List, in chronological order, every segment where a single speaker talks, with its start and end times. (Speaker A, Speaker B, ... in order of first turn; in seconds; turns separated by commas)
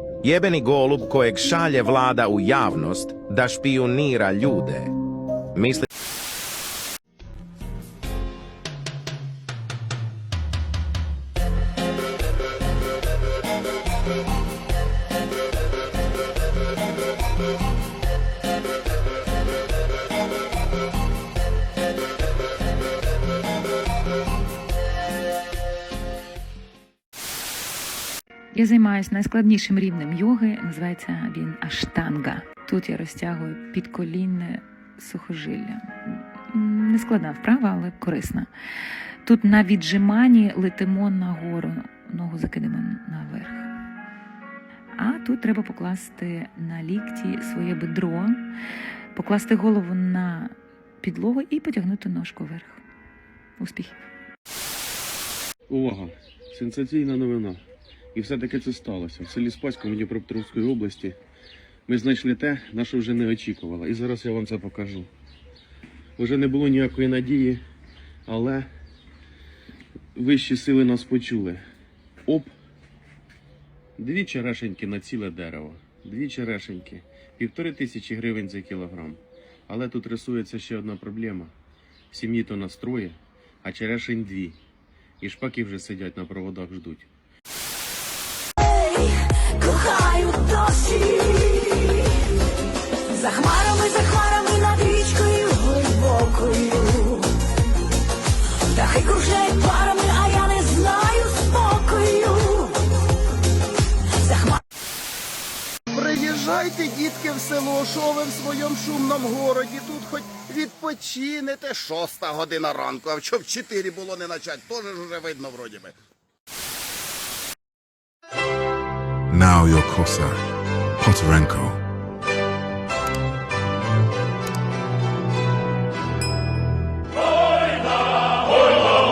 Speaker A: 0.2-4.9, Speaker A: 5.5-5.9, Speaker B: 28.5-38.5, Speaker B: 39.2-43.7, Speaker B: 45.0-48.4, Speaker B: 49.1-52.8, Speaker B: 53.6-53.9, Speaker C: 55.7-57.6, Speaker C: 58.1-61.2, Speaker C: 61.9-65.1, Speaker C: 66.2-67.6, Speaker C: 68.3-68.7, Speaker C: 70.2-71.6, Speaker C: 72.3-72.5, Speaker C: 74.0-81.5, Speaker C: 82.1-84.6, Speaker C: 85.2-87.1, Speaker D: 88.9-92.0, Speaker D: 93.1-97.2, Speaker D: 98.7-102.8, Speaker D: 104.3-104.5, Speaker E: 105.9-115.9, Speaker F: 119.3-120.4, Speaker F: 121.0-121.8